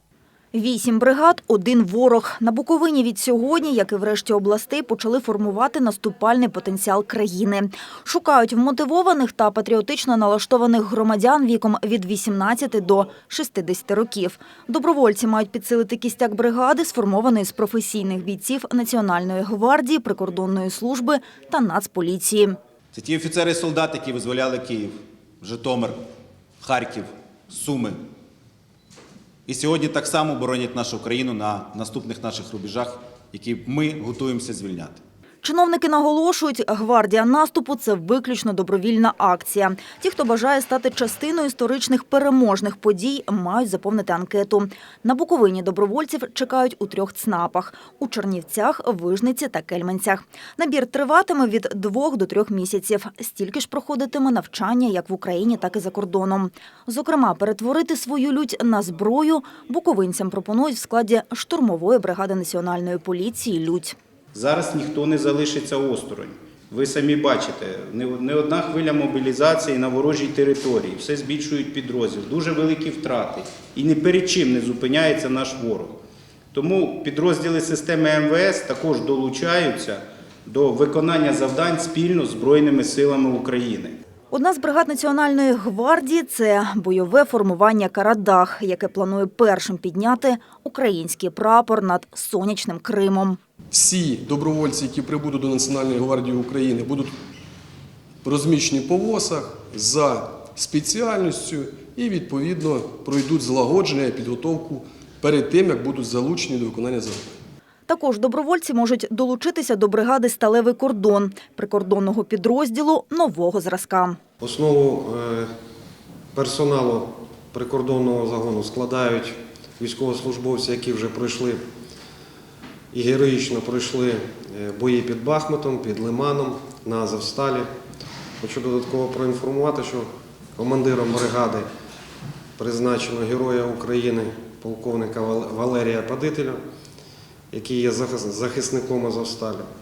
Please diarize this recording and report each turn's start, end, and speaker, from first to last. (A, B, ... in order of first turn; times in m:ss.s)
0:00.5-0:22.6 A
0:22.9-0:26.0 B
0:26.6-0:28.0 B
0:29.5-0:35.0 B
0:35.4-1:04.0 A
1:04.3-1:16.0 C
1:16.5-1:24.0 C
1:24.3-1:33.4 A
1:33.7-1:37.2 D
1:38.2-1:47.4 D
1:47.9-1:54.2 A
1:54.4-1:55.5 E
1:56.3-2:01.6 E
2:02.9-2:07.7 E
2:08.4-2:11.7 E
2:12.6-2:16.6 E
2:17.5-2:19.7 E